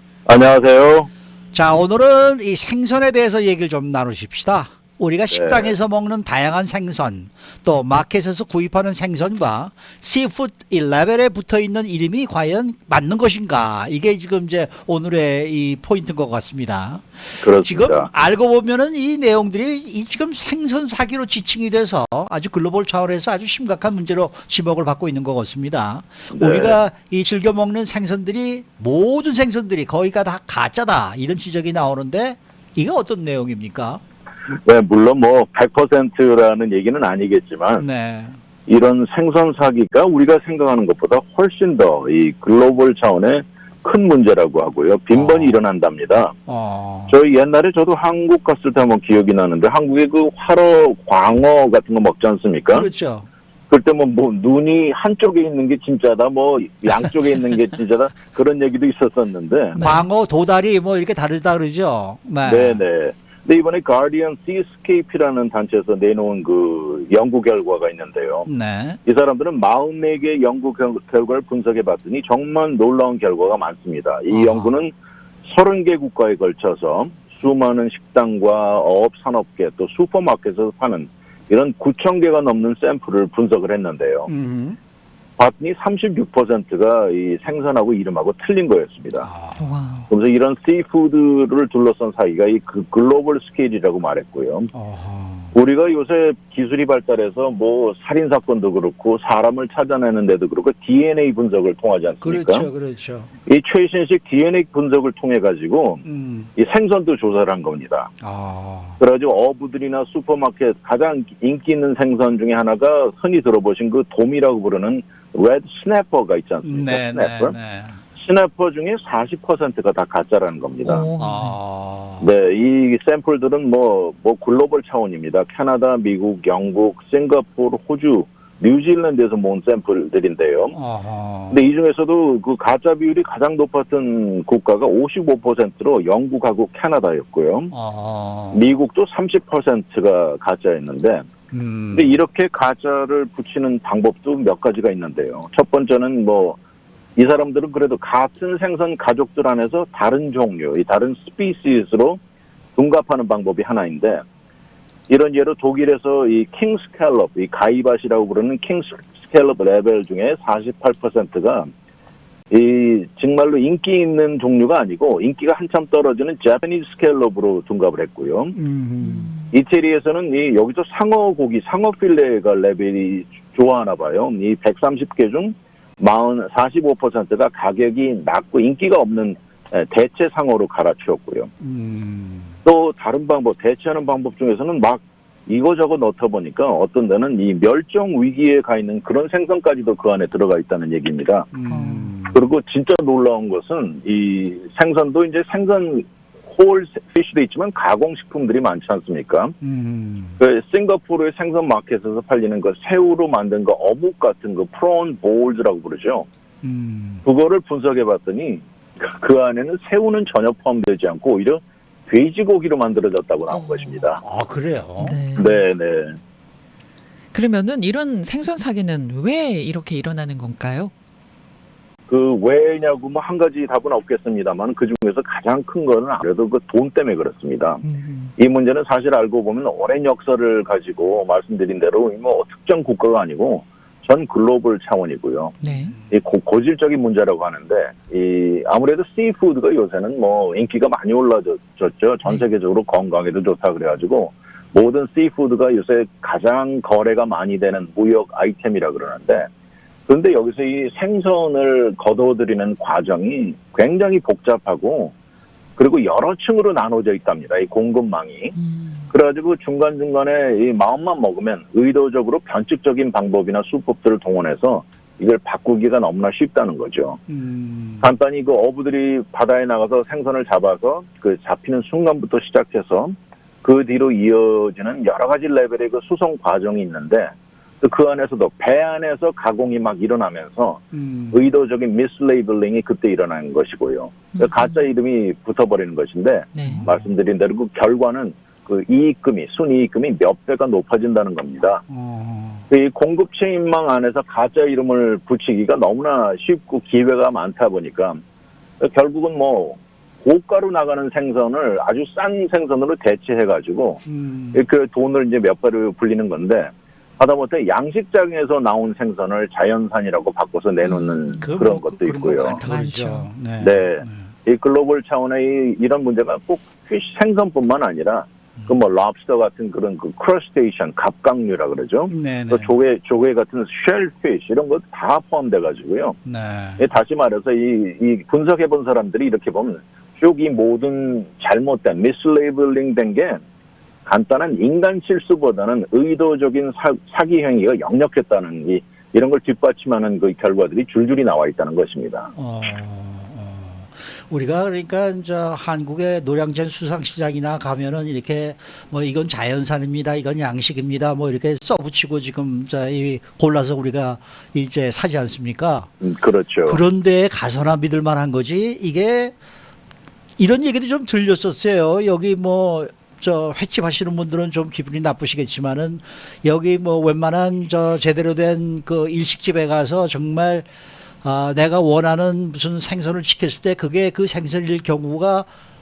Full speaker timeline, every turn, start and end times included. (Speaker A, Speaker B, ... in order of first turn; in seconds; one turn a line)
Speaker A: 0.2-1.1
Speaker B: 1.5-34.0
Speaker A: 5.3-5.7
Speaker A: 17.4-18.1
Speaker A: 26.3-26.8
Speaker A: 34.6-37.8
Speaker B: 37.8-38.4
Speaker A: 38.7-46.3
Speaker B: 45.1-45.6
Speaker B: 46.5-47.2
Speaker A: 47.1-52.9
Speaker B: 52.7-53.3
Speaker A: 53.7-59.8
Speaker C: 59.8-60.0
Speaker B: 59.8-62.8
Speaker A: 62.4-68.5
Speaker B: 68.5-69.0
Speaker A: 69.0-74.9
Speaker B: 74.3-74.8
Speaker A: 75.4-84.3
Speaker B: 84.3-84.8
Speaker A: 85.4-89.3
Speaker B: 89.2-89.7
Speaker C: 89.6-90.1
Speaker A: 90.1-94.7
Speaker B: 94.7-95.5
Speaker A: 95.5-102.7
Speaker B: 102.2-103.3
Speaker A: 103.5-106.0
Speaker B: 106.0-106.5
Speaker A: 106.5-108.1
Speaker B: 108.2-109.0
Speaker A: 109.0-117.5
Speaker B: 116.6-118.0
Speaker A: 118.2-121.1
Speaker C: 120.8-121.6
Speaker B: 121.2-122.3
Speaker A: 122.2-130.8
Speaker B: 130.7-131.7
Speaker A: 131.5-137.7
Speaker B: 137.7-138.7
Speaker A: 138.5-141.3
Speaker B: 141.5-142.2
Speaker A: 141.9-146.6
Speaker A: 147.2-152.2
Speaker A: 152.8-154.2
Speaker A: 155.1-161.7
Speaker A: 162.5-168.6
Speaker B: 168.5-169.3
Speaker C: 169.0-169.5
Speaker A: 169.5-181.5
Speaker B: 181.6-182.6
Speaker A: 182.6-191.5
Speaker B: 191.5-192.4
Speaker C: 191.7-192.1
Speaker A: 192.3-199.6
Speaker B: 199.6-200.4
Speaker A: 200.4-206.3
Speaker B: 206.6-207.2
Speaker A: 207.2-214.2
Speaker C: 213.5-214.1
Speaker B: 214.2-215.2
Speaker C: 215.0-215.6
Speaker A: 215.4-216.2
Speaker C: 217.3-220.9
Speaker A: 222.1-227.8
Speaker C: 227.8-228.3
Speaker A: 228.4-235.6
Speaker C: 235.6-235.9
Speaker B: 235.7-236.1
Speaker A: 236.1-249.5
Speaker A: 250.1-255.1
Speaker A: 255.8-258.5
Speaker C: 258.5-259.1
Speaker A: 259.1-267.2
Speaker B: 267.3-268.1
Speaker A: 268.0-291.8
Speaker B: 280.9-281.5
Speaker C: 284.3-284.9
Speaker C: 286.5-286.8
Speaker B: 286.6-287.1
Speaker B: 291.9-292.6
Speaker A: 292.7-298.2
Speaker A: 298.8-312.6
Speaker B: 304.0-304.6
Speaker C: 310.8-311.5
Speaker B: 311.4-314.3
Speaker C: 312.5-313.3
Speaker A: 313.6-326.2
Speaker B: 322.1-322.7
Speaker B: 326.2-326.9
Speaker A: 326.8-333.4
Speaker A: 334.1-342.3
Speaker B: 342.3-355.9
Speaker A: 356.0-356.8
Speaker B: 356.6-359.3
Speaker B: 360.4-370.7
Speaker B: 371.2-375.5